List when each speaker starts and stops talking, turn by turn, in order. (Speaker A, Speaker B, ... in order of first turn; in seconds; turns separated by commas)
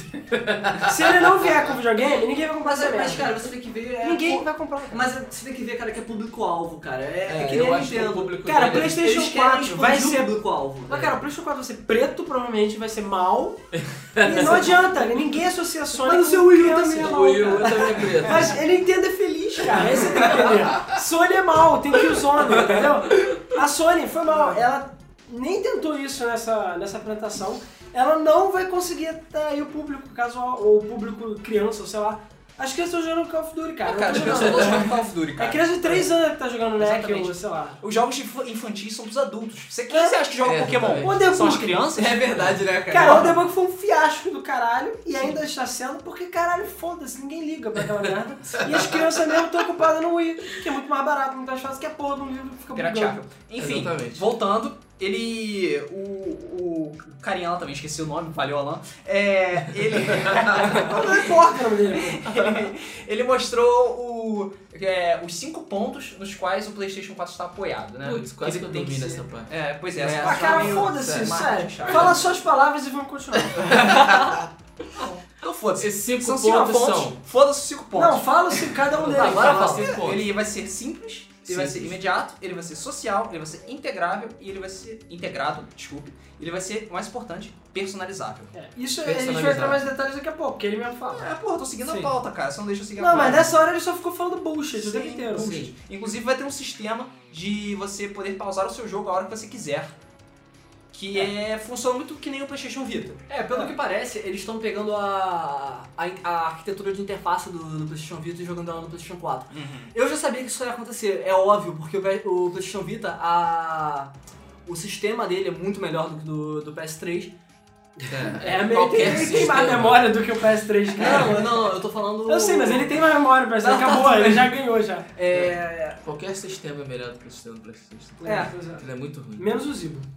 Speaker A: 0.2-1.3, Speaker B: 0.8-3.4, Speaker C: 2.6-11.2, Speaker B: 4.0-5.1, Speaker A: 7.3-9.1, Speaker B: 8.4-10.3, Speaker B: 10.9-13.6, Speaker A: 13.8-14.7, Speaker B: 14.2-37.8, Speaker C: 15.9-18.2, Speaker A: 16.9-18.6, Speaker A: 20.7-21.0, Speaker A: 22.5-23.4, Speaker D: 33.9-36.1, Speaker A: 34.3-34.7, Speaker D: 36.8-42.5, Speaker B: 39.9-40.2, Speaker A: 40.4-41.2, Speaker B: 41.0-41.8, Speaker C: 42.0-43.4, Speaker B: 42.9-53.2, Speaker A: 48.6-49.2, Speaker D: 52.7-72.2, Speaker A: 53.6-54.2, Speaker B: 60.7-62.3, Speaker A: 68.0-69.5, Speaker C: 69.9-70.9, Speaker B: 70.2-73.9, Speaker A: 71.9-72.1, Speaker D: 73.6-74.3, Speaker A: 74.1-74.4, Speaker D: 75.0-78.4, Speaker A: 75.8-77.2, Speaker B: 78.0-79.8, Speaker A: 78.9-80.3, Speaker C: 79.1-79.9, Speaker D: 79.2-88.5, Speaker A: 81.5-82.0, Speaker B: 88.5-91.3, Speaker A: 89.0-89.8, Speaker D: 91.1-93.5, Speaker C: 91.8-92.1, Speaker B: 93.0-95.7, Speaker D: 94.8-99.9, Speaker A: 95.3-95.7, Speaker D: 100.9-103.7, Speaker C: 103.3-114.1, Speaker D: 109.5-109.9, Speaker C: 114.7-117.3, Speaker B: 118.0-121.5, Speaker A: 118.1-120.2, Speaker C: 121.0-123.1, Speaker B: 122.3-125.1, Speaker C: 123.6-124.5, Speaker C: 125.2-126.0, Speaker A: 125.3-129.5, Speaker B: 128.2-130.1, Speaker C: 128.2-128.5